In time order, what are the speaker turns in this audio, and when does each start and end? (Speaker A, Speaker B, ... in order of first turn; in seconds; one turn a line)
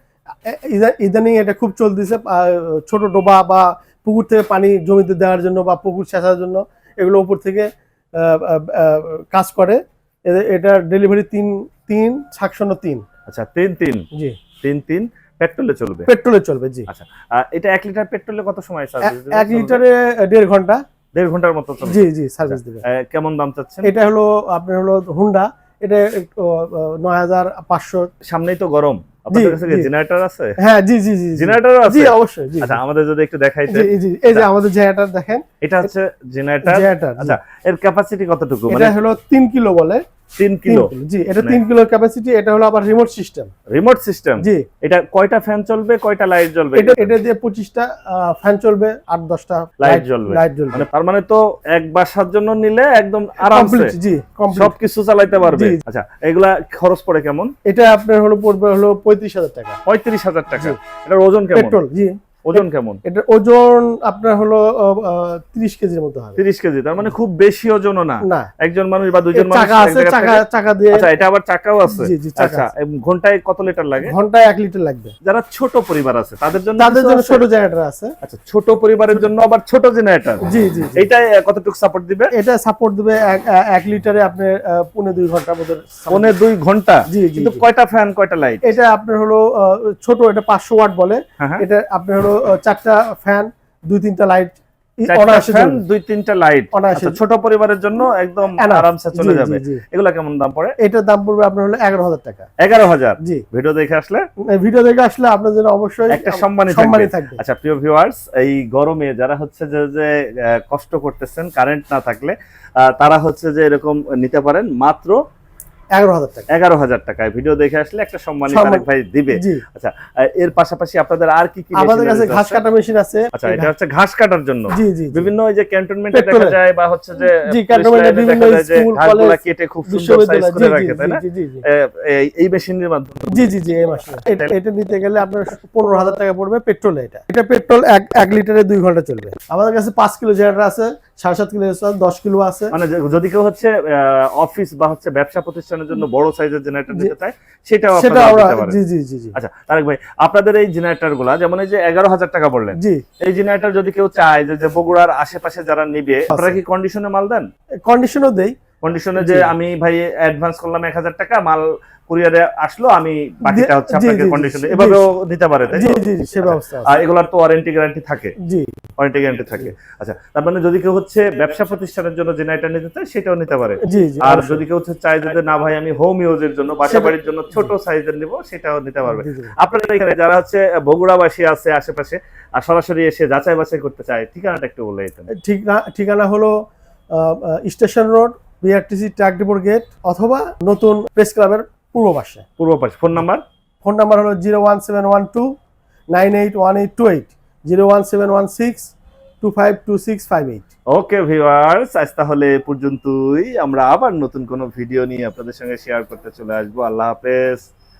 Speaker A: 0.5-13.1
Speaker B: 13.3-14.1
Speaker B: 14.6-16.1
Speaker A: 16.1-16.9
Speaker B: 16.9-19.8
Speaker A: 19.0-20.8
Speaker B: 21.1-23.9
Speaker A: 21.8-22.8
Speaker A: 23.8-28.1
Speaker B: 28.2-30.6
Speaker A: 29.3-29.9
Speaker A: 30.6-32.8
Speaker B: 31.4-34.5
Speaker A: 33.7-35.5
Speaker B: 35.6-38.9
Speaker A: 36.6-37.4
Speaker A: 38.7-40.0
Speaker B: 40.4-41.6
Speaker A: 40.7-43.5
Speaker B: 43.7-47.1
Speaker A: 44.4-44.7
Speaker A: 46.8-50.8
Speaker B: 49.8-53.9
Speaker A: 53.4-54.8
Speaker B: 54.5-57.5
Speaker A: 55.5-55.8
Speaker A: 57.7-59.8
Speaker B: 59.9-61.8
Speaker A: 61.5-66.4
Speaker B: 62.4-63.0
Speaker B: 66.4-74.1
Speaker A: 68.2-68.5
Speaker A: 69.3-71.1
Speaker A: 71.9-72.7
Speaker A: 74.0-75.2
Speaker B: 75.2-77.4
Speaker A: 76.8-78.1
Speaker B: 78.2-80.4
Speaker A: 80.4-81.1
Speaker B: 81.0-82.3
Speaker A: 82.3-86.4
Speaker B: 86.1-88.6
Speaker A: 87.1-87.6
Speaker A: 88.6-95.8
Speaker B: 95.1-100.8
Speaker A: 96.7-97.2
Speaker A: 98.6-99.8
Speaker A: 100.8-102.5
Speaker B: 102.6-104.2
Speaker A: 104.4-107.4
Speaker B: 106.1-115.2
Speaker A: 115.9-116.5
Speaker B: 116.5-122.6
Speaker A: 118.5-119.6
Speaker A: 121.7-123.7
Speaker B: 123.3-133.5
Speaker A: 124.7-125.3
Speaker A: 126.1-126.6
Speaker A: 127.3-131.7
Speaker A: 133.3-142.7
Speaker B: 134.2-134.5
Speaker B: 142.7-148.8
Speaker A: 147.9-149.3
Speaker B: 149.3-157.5
Speaker A: 152.8-153.0
Speaker A: 156.3-156.6
Speaker A: 157.8-158.6
Speaker B: 158.8-168.3
Speaker A: 159.2-159.5
Speaker A: 163.5-165.1
Speaker A: 165.7-167.0
Speaker A: 168.4-168.8
Speaker B: 169.0-185.3
Speaker A: 173.8-174.6
Speaker A: 176.8-177.7
Speaker A: 179.1-179.5
Speaker A: 185.3-186.5
Speaker A: 187.1-192.4
Speaker B: 192.6-193.4
Speaker A: 193.8-195.5
Speaker A: 196.1-200.7
Speaker B: 200.9-207.7